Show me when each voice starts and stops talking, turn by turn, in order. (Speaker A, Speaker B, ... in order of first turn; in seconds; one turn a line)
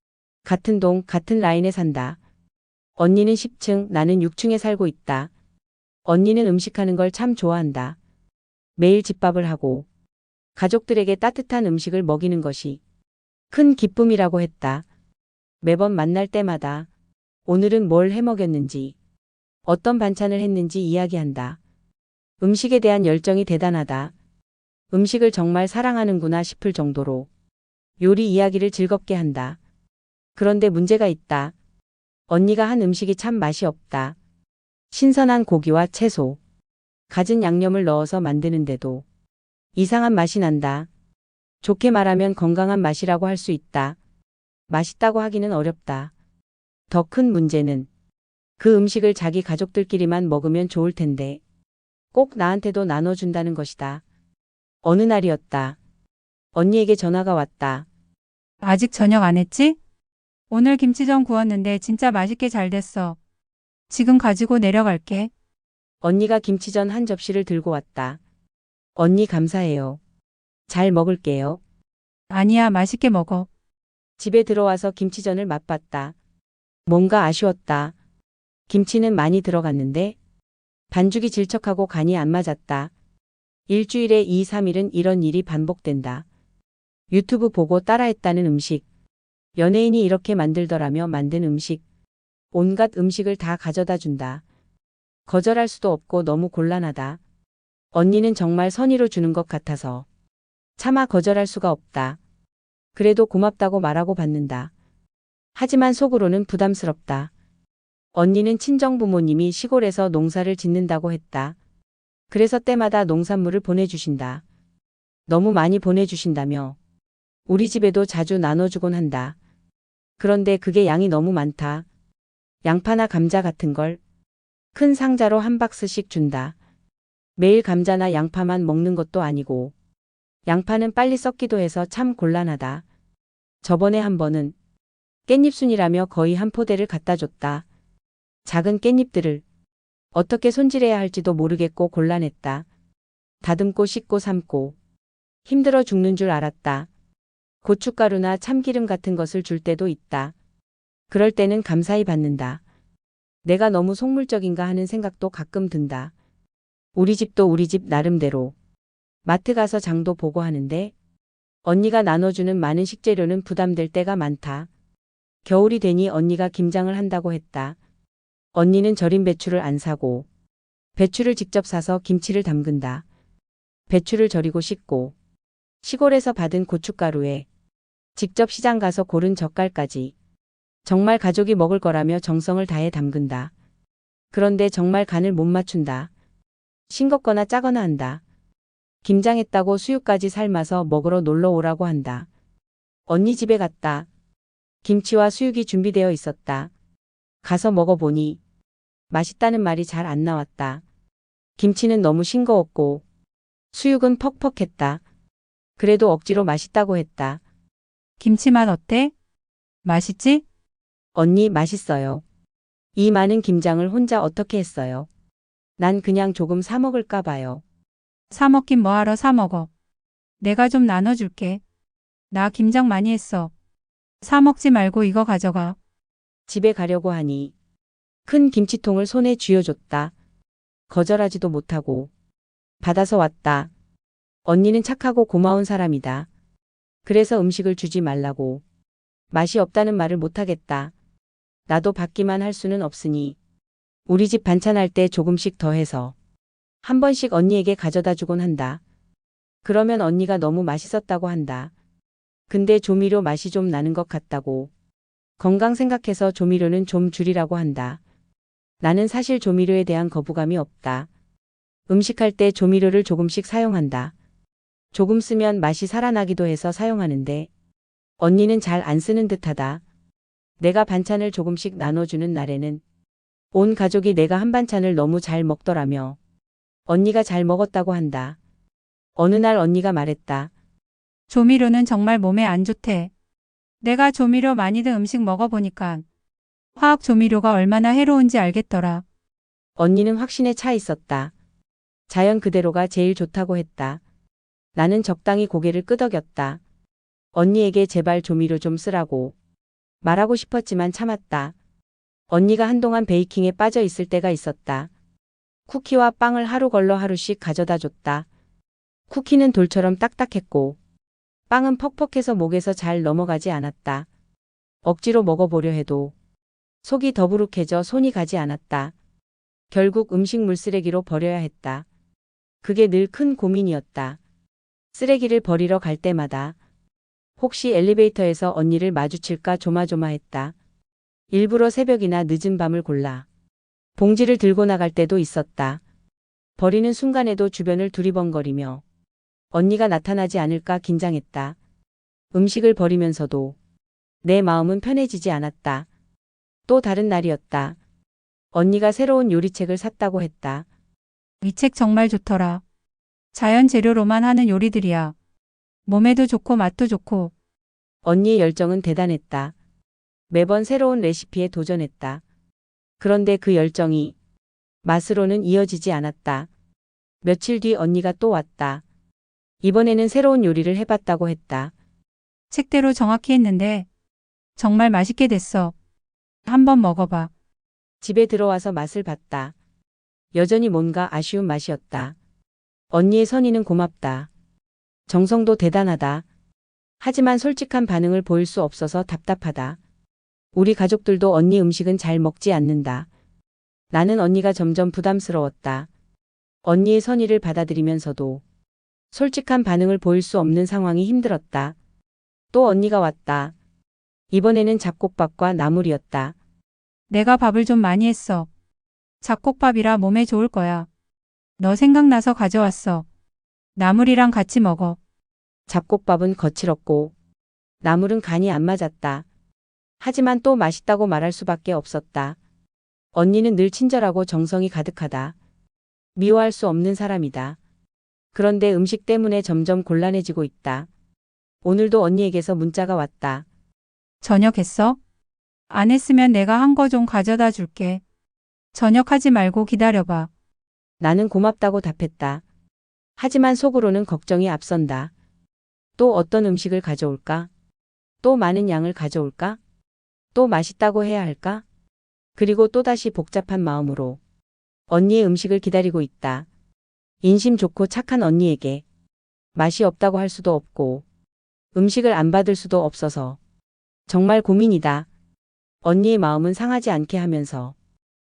Speaker A: 0.5-2.2
Speaker A: 3.0-5.3
Speaker A: 6.0-8.0
Speaker A: 8.8-9.9
Speaker A: 10.6-12.8
Speaker A: 13.5-14.9
Speaker A: 15.6-16.9
Speaker A: 17.5-18.9
Speaker A: 19.7-21.6
Speaker A: 22.4-24.1
Speaker A: 24.9-27.3
Speaker A: 28.0-29.6
Speaker A: 30.4-31.6
Speaker A: 32.3-34.2
Speaker A: 34.9-36.4
Speaker A: 37.1-39.0
Speaker A: 39.8-40.9
Speaker A: 41.6-44.0
Speaker A: 44.7-46.1
Speaker A: 46.9-47.9
Speaker A: 48.6-51.4
Speaker A: 52.1-54.0
Speaker A: 54.8-55.8
Speaker A: 56.5-57.9
Speaker B: 58.6-59.8
Speaker B: 60.5-63.2
Speaker B: 63.9-65.3
Speaker A: 66.0-68.2
Speaker A: 69.0-70.0
Speaker A: 70.7-71.6
Speaker B: 72.3-73.5
Speaker A: 74.2-76.2
Speaker A: 76.9-78.0
Speaker A: 78.7-80.2
Speaker A: 80.9-82.9
Speaker A: 83.7-86.3
Speaker A: 87.1-88.8
Speaker A: 89.6-91.8
Speaker A: 92.5-94.4
Speaker A: 95.3-97.2
Speaker A: 97.9-100.1
Speaker A: 100.8-102.2
Speaker A: 103.0-104.7
Speaker A: 105.5-107.3
Speaker A: 108.1-111.6
Speaker A: 112.3-114.4
Speaker A: 115.3-116.8
Speaker A: 117.5-119.4
Speaker A: 120.2-121.9
Speaker A: 122.6-124.0
Speaker A: 124.7-126.5
Speaker A: 127.4-129.7
Speaker A: 130.5-132.8
Speaker A: 133.6-134.6
Speaker A: 135.3-137.7
Speaker A: 138.4-139.4
Speaker A: 140.1-142.7
Speaker A: 143.4-144.8
Speaker A: 145.5-146.9
Speaker A: 147.6-150.3
Speaker A: 151.1-152.6
Speaker A: 153.4-156.1
Speaker A: 156.9-158.6
Speaker A: 159.2-160.9
Speaker A: 161.6-164.7
Speaker A: 165.4-167.8
Speaker A: 168.5-170.3
Speaker A: 171.0-173.1
Speaker A: 173.9-175.2
Speaker A: 175.8-177.5
Speaker A: 178.2-180.1
Speaker A: 180.8-183.5
Speaker A: 184.3-186.1
Speaker A: 186.9-188.2
Speaker A: 189.0-192.3
Speaker A: 193.1-194.1
Speaker A: 194.8-196.7
Speaker A: 197.4-198.4
Speaker A: 199.1-200.8
Speaker A: 201.6-203.0
Speaker A: 203.7-205.0
Speaker A: 205.8-207.4
Speaker B: 208.2-209.1
Speaker B: 209.8-210.4
Speaker A: 211.2-212.2
Speaker A: 212.9-215.1
Speaker A: 215.8-217.6
Speaker B: 218.3-219.7
Speaker B: 220.4-221.6
Speaker B: 222.3-223.5
Speaker B: 224.2-225.8
Speaker A: 226.5-227.5
Speaker A: 228.3-230.1
Speaker A: 230.9-232.1
Speaker A: 232.8-233.7
Speaker A: 234.4-236.3
Speaker A: 237.1-238.6
Speaker A: 239.3-240.9
Speaker A: 241.7-243.4
Speaker A: 244.1-246.2
Speaker A: 246.8-248.8
Speaker A: 249.6-251.7
Speaker A: 252.5-254.7
Speaker A: 255.4-258.0
Speaker A: 258.8-261.1
Speaker A: 261.9-264.1
Speaker A: 264.9-267.5
Speaker A: 268.2-269.8
Speaker A: 270.6-272.8
Speaker A: 273.5-276.2
Speaker A: 276.9-278.4
Speaker A: 279.2-280.5
Speaker B: 281.3-283.1
Speaker B: 283.8-286.1
Speaker B: 286.8-289.0
Speaker A: 289.8-291.3
Speaker A: 292.1-294.0
Speaker A: 294.8-296.6
Speaker A: 297.3-299.4
Speaker A: 300.0-301.6
Speaker A: 302.3-304.9
Speaker A: 305.7-308.3
Speaker A: 309.1-310.8
Speaker A: 311.5-314.1
Speaker A: 314.8-316.1
Speaker A: 316.8-318.9
Speaker A: 319.7-321.9
Speaker A: 322.6-324.2
Speaker A: 324.9-326.6
Speaker A: 327.4-330.6
Speaker A: 331.3-333.3
Speaker A: 334.0-335.8
Speaker A: 336.6-338.8
Speaker A: 339.5-341.6
Speaker A: 342.3-343.6
Speaker A: 344.2-345.9
Speaker A: 346.7-347.8
Speaker A: 348.5-350.7
Speaker B: 351.4-352.6
Speaker B: 353.3-355.1
Speaker B: 355.9-357.3
Speaker A: 358.0-359.6
Speaker A: 360.3-362.2
Speaker A: 363.0-364.1
Speaker A: 364.8-366.5
Speaker A: 367.2-368.8
Speaker A: 369.6-371.7
Speaker B: 372.5-373.9
Speaker B: 374.6-375.7
Speaker B: 376.5-377.3
Speaker A: 378.0-379.6
Speaker A: 380.3-382.2
Speaker A: 382.9-384.3
Speaker A: 385.1-386.3
Speaker A: 387.0-389.8
Speaker A: 390.5-393.1
Speaker A: 393.9-395.9
Speaker A: 396.6-398.4
Speaker A: 399.1-401.8
Speaker A: 402.5-403.6
Speaker A: 404.3-406.4
Speaker B: 407.1-408.5
Speaker B: 409.2-410.9
Speaker B: 411.6-413.1
Speaker B: 413.8-415.0
Speaker A: 415.7-417.1
Speaker A: 417.8-419.3
Speaker A: 420.0-422.4
Speaker A: 423.1-425.4
Speaker A: 426.2-427.6
Speaker A: 428.3-430.9
Speaker A: 431.6-433.5
Speaker B: 434.2-435.0
Speaker B: 435.7-438.0
Speaker B: 438.7-440.3
Speaker A: 441.0-442.4
Speaker A: 443.2-445.1
Speaker A: 446.0-447.5
Speaker A: 448.2-449.6
Speaker A: 450.3-451.6
Speaker A: 452.4-454.2
Speaker A: 454.9-456.5
Speaker A: 457.2-458.8
Speaker A: 459.6-461.1
Speaker A: 461.7-463.4
Speaker A: 464.1-465.1
Speaker A: 465.8-467.8